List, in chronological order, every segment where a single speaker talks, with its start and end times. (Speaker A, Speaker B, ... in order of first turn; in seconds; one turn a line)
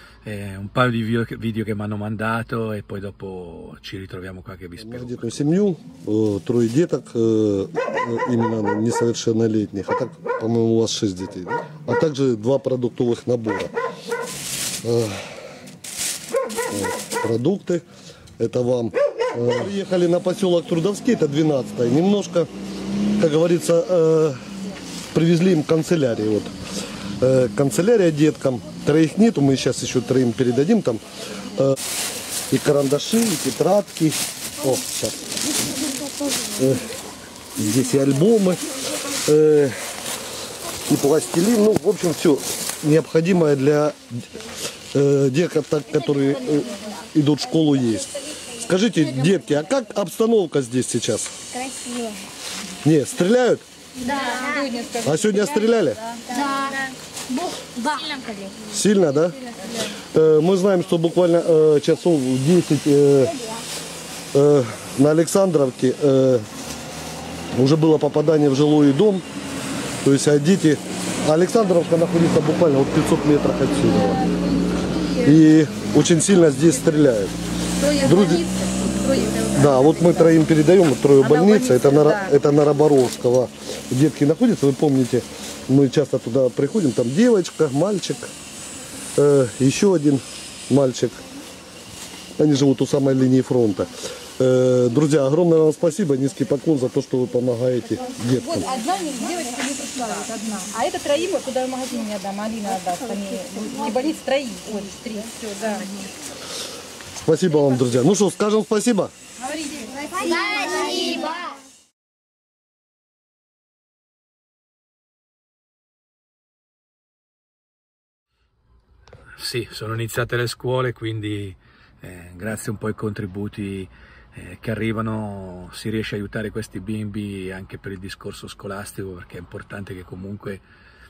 Speaker A: 0.2-5.5
Speaker B: 4.8-13.7
Speaker B: 14.8-15.3
Speaker B: 16.7-17.8
Speaker B: 18.4-22.5
Speaker B: 23.2-24.4
Speaker B: 25.1-26.5
Speaker B: 27.2-31.7
Speaker B: 32.5-35.4
Speaker B: 36.5-36.9
Speaker B: 37.5-39.8
Speaker B: 40.9-44.0
Speaker B: 44.9-51.3
Speaker C: 51.5-52.2
Speaker B: 52.8-53.6
Speaker D: 54.1-56.8
Speaker C: 54.1-54.6
Speaker B: 55.0-56.0
Speaker C: 56.3-58.6
Speaker B: 58.7-59.4
Speaker B: 60.0-63.4
Speaker B: 64.3-66.5
Speaker B: 67.5-69.2
Speaker B: 70.0-74.3
Speaker D: 74.1-76.0
Speaker B: 75.2-77.4
Speaker D: 77.7-80.3
Speaker B: 78.0-78.4
Speaker B: 79.5-88.3
Speaker D: 81.2-82.4
Speaker B: 89.2-91.2
Speaker B: 92.4-98.8
Speaker D: 98.3-106.0
Speaker B: 107.2-109.1
Speaker D: 109.5-111.3
Speaker C: 110.0-111.5
Speaker A: 119.4-130.6